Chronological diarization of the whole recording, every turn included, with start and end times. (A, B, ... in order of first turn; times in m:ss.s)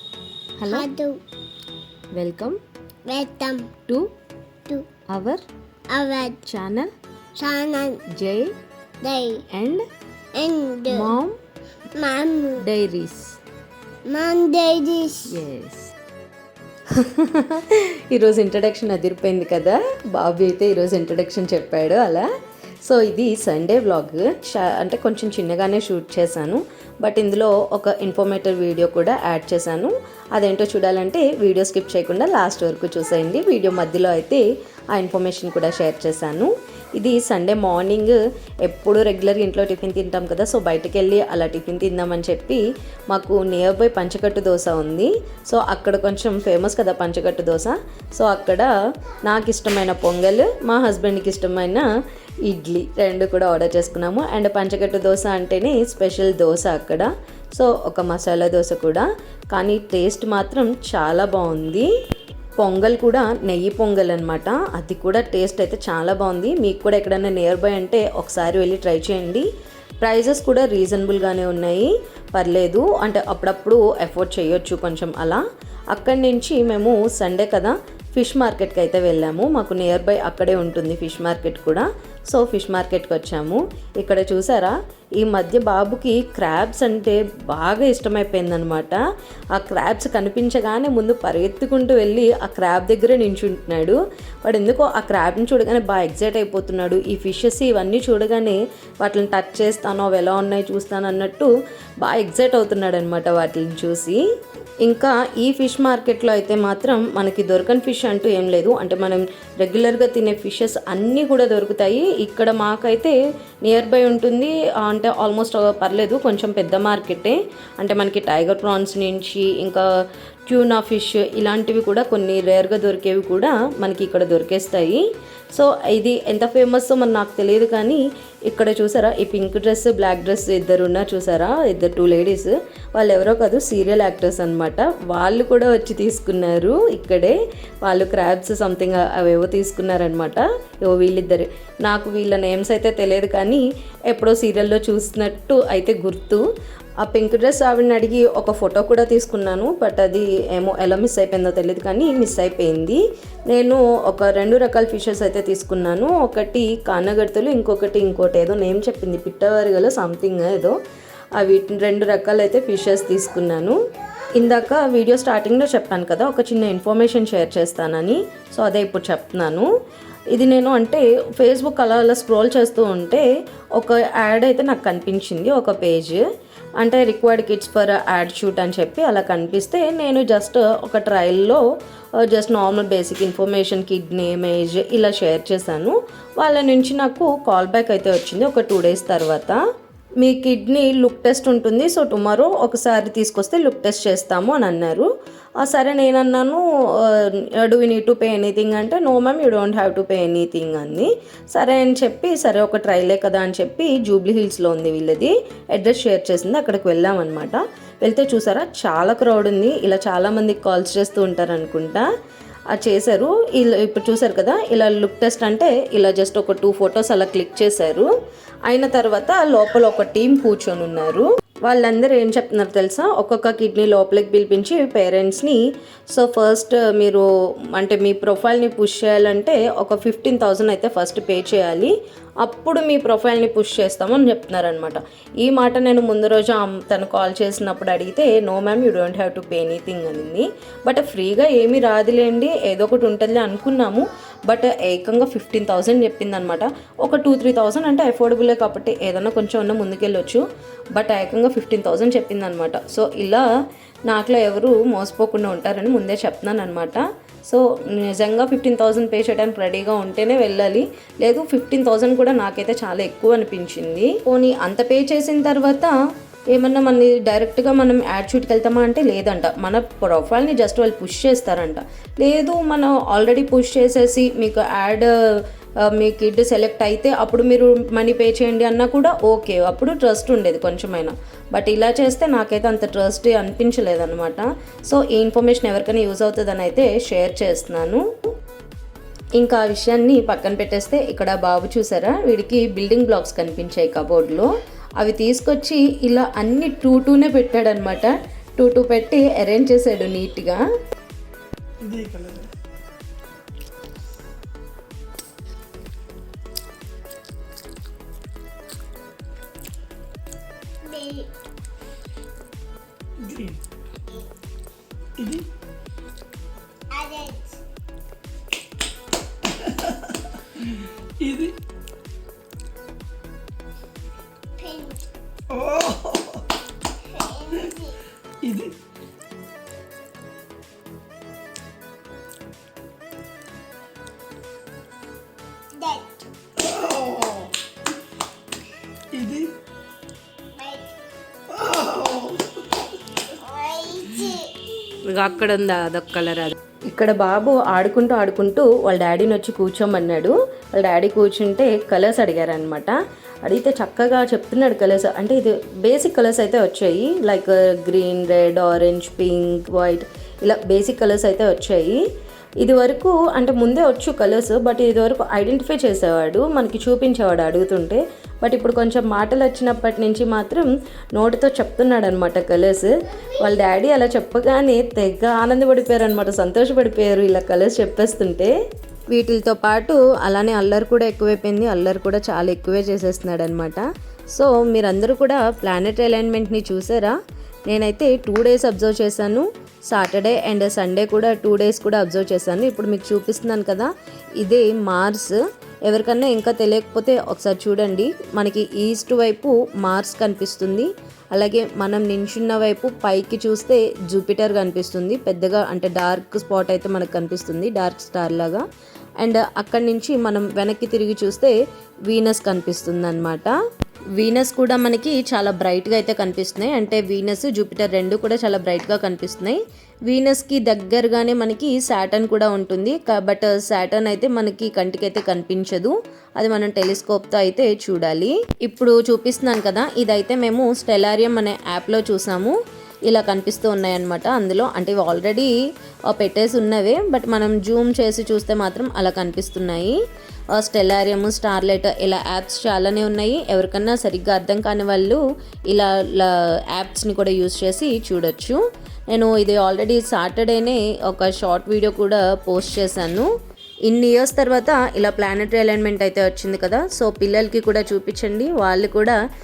0:00.6-0:00.9 A
0:00.6-0:01.2 B
0:02.1-0:02.6 A
0:03.1-0:03.7 B
0:05.1-0:05.4 A
0:05.9-0:06.4 B
0:06.4-0:06.9 A
0:07.4-0:08.0 B
0:08.1-0:08.6 A
0:09.0-0:09.4 B
0:09.5-0:09.8 A
0:10.3-0:11.1 B
0:10.9-0:11.4 A
0:12.0-0:12.6 B
0:12.6-0:13.4 A
0:14.0-0:15.3 B
0:15.3-0:15.9 A
0:16.9-0:22.3 A
0:22.8-0:48.7 A
0:49.2-0:51.8 A
0:52.4-1:01.9 A
1:02.6-1:09.5 A
1:10.0-1:15.4 A
1:15.9-1:29.0 A
1:29.5-1:41.5 A
1:42.0-1:44.2 A
1:44.8-1:59.8 A
2:00.5-2:26.4 A
2:27.0-2:40.7 A
2:41.4-2:43.8 A
2:44.3-2:49.7 A
2:50.3-2:56.2 A
2:56.8-3:01.6 A
3:02.2-3:09.6 A
3:10.2-3:15.1 A
3:15.6-3:32.0 A
3:32.7-3:38.1 A
3:38.7-3:45.6 A
3:46.1-4:10.4 A
4:10.9-4:13.4 A
4:14.1-4:25.9 A
4:26.5-4:35.1 A
4:35.8-4:48.0 A
4:49.4-5:00.6 A
5:01.8-5:02.5 C
5:10.8-5:11.3 B
5:13.2-5:13.6 C
5:15.2-5:15.4 C
5:16.9-5:17.6 B
5:19.6-5:19.9 C
5:21.2-5:21.6 C
5:24.6-5:25.0 B
5:25.5-5:26.4 C
5:27.0-5:28.0 B
5:28.4-5:28.8 C
5:35.8-5:36.1 B
5:36.8-5:37.4 C
5:39.1-5:39.5 C
5:40.5-5:40.9 B
5:41.5-5:42.6 C
5:43.3-5:44.6 B
5:45.0-6:02.0 A
6:02.6-6:18.5 A
6:19.1-6:27.2 A
6:27.7-6:48.6 A
6:49.2-6:51.6 A
6:52.1-6:53.5 A
6:54.2-7:12.5 A
7:13.1-7:15.5 A
7:16.1-7:20.0 A
7:20.5-7:33.3 A
7:33.9-7:39.2 A